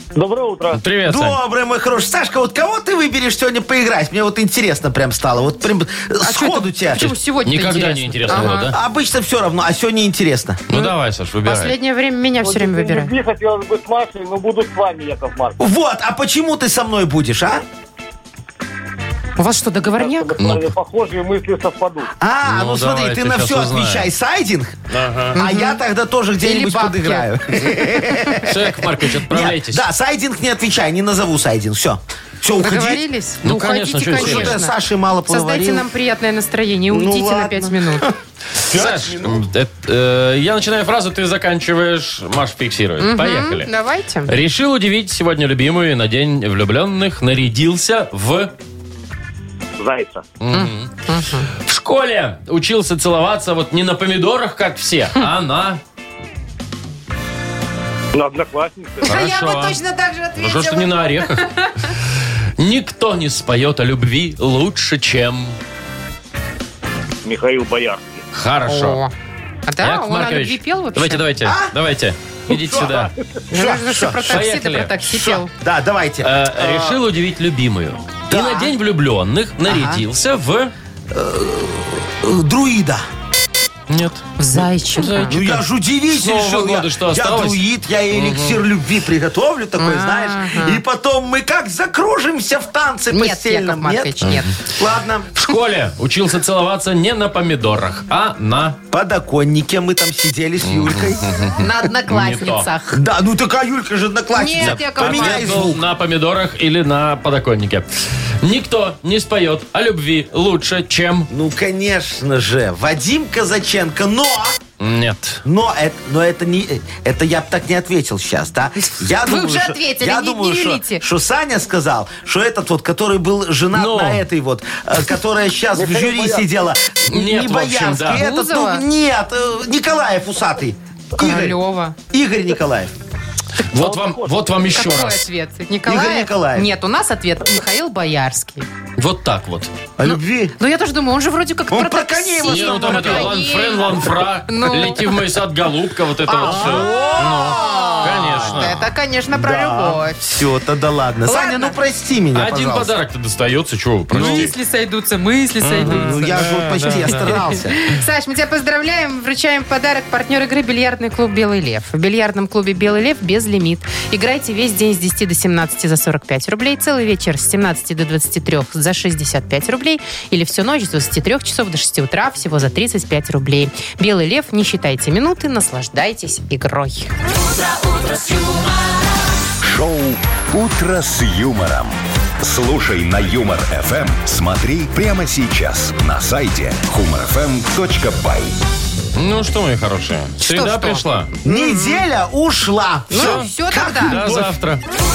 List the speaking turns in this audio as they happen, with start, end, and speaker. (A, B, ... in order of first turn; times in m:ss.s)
0:00.1-0:00.8 A
0:00.7-0:01.4 B
0:01.1-0:07.1 C
0:06.2-0:08.7 D
0:07.0-0:08.8 B
0:08.3-0:10.6 C
0:10.7-0:11.7 B
0:11.4-0:13.1 D
0:12.4-0:15.6 A
0:15.6-0:17.6 C
0:19.4-0:20.3 D
0:20.0-0:22.1 A
0:20.4-0:20.7 B
0:22.2-0:24.8 C
0:22.4-0:24.1 B
0:24.9-0:25.4 B
0:25.3-0:33.0 C
0:25.3-0:25.8 D
0:26.4-0:27.3 D
0:28.5-0:29.8 B
0:32.6-0:34.7 D
0:33.4-0:34.6 B
0:34.1-0:35.9 C
0:35.3-0:38.0 D
0:36.9-0:38.1 C
0:38.7-0:43.7 B
0:38.7-0:39.4 C
0:43.0-0:44.3 D
0:44.2-0:48.5 B
0:49.8-0:50.2 A
0:50.4-0:50.9 B
0:50.5-0:51.5 D
0:51.6-0:55.8 B
0:58.1-0:59.2 A
0:59.0-1:01.9 D
0:59.0-0:59.8 B
1:00.4-1:01.5 B
1:02.6-1:05.6 B
1:07.2-1:08.2 A
1:08.3-1:09.0 B
1:08.6-1:09.1 D
1:09.7-1:11.2 D
1:09.8-1:13.1 B
1:11.4-1:11.7 C
1:12.5-1:12.9 C
1:12.9-1:13.4 A
1:13.5-1:15.5 D
1:13.5-1:14.4 C
1:14.2-1:14.9 B
1:15.0-1:17.0 C
1:16.2-1:20.7 B
1:18.3-1:18.7 C
1:19.7-1:20.0 C
1:21.1-1:23.0 C
1:23.9-1:24.3 B
1:24.4-1:25.4 D
1:25.0-1:28.6 B
1:25.3-1:35.4 C
1:29.8-1:30.8 D
1:33.1-1:34.5 D
1:35.4-1:38.8 B
1:38.9-1:41.5 C
1:40.6-1:42.7 B
1:41.6-1:43.0 D
1:42.9-1:45.8 C
1:44.3-1:45.7 D
1:44.6-1:47.9 B
1:48.4-1:51.3 B
1:51.3-1:54.6 C
1:54.8-1:55.4 B
1:55.4-2:11.6 C
1:59.2-2:01.0 D
2:03.7-2:04.2 B
2:05.7-2:06.5 A
2:07.1-2:08.2 B
2:08.1-2:08.8 D
2:11.2-2:12.0 D
2:12.1-2:12.9 C
2:13.7-2:15.3 B
2:13.8-2:14.5 A
2:14.7-2:18.7 D
2:15.8-2:16.7 C
2:19.0-2:19.7 B
2:20.0-2:20.5 C
2:20.0-2:25.2 D
2:21.7-2:23.5 C
2:22.4-2:28.9 B
2:26.3-2:30.4 D
2:26.4-2:28.7 C
2:29.3-2:32.9 C
2:31.2-2:31.8 D
2:32.3-2:34.5 B
2:34.1-2:57.1 D
2:34.1-2:34.5 C
2:35.6-2:37.5 B
2:35.8-2:37.8 C
2:59.6-3:08.5 E
3:09.1-3:11.3 B
3:10.4-3:12.0 D
3:11.4-3:14.5 C
3:13.1-3:14.2 D
3:13.2-3:13.5 B
3:14.0-3:14.8 B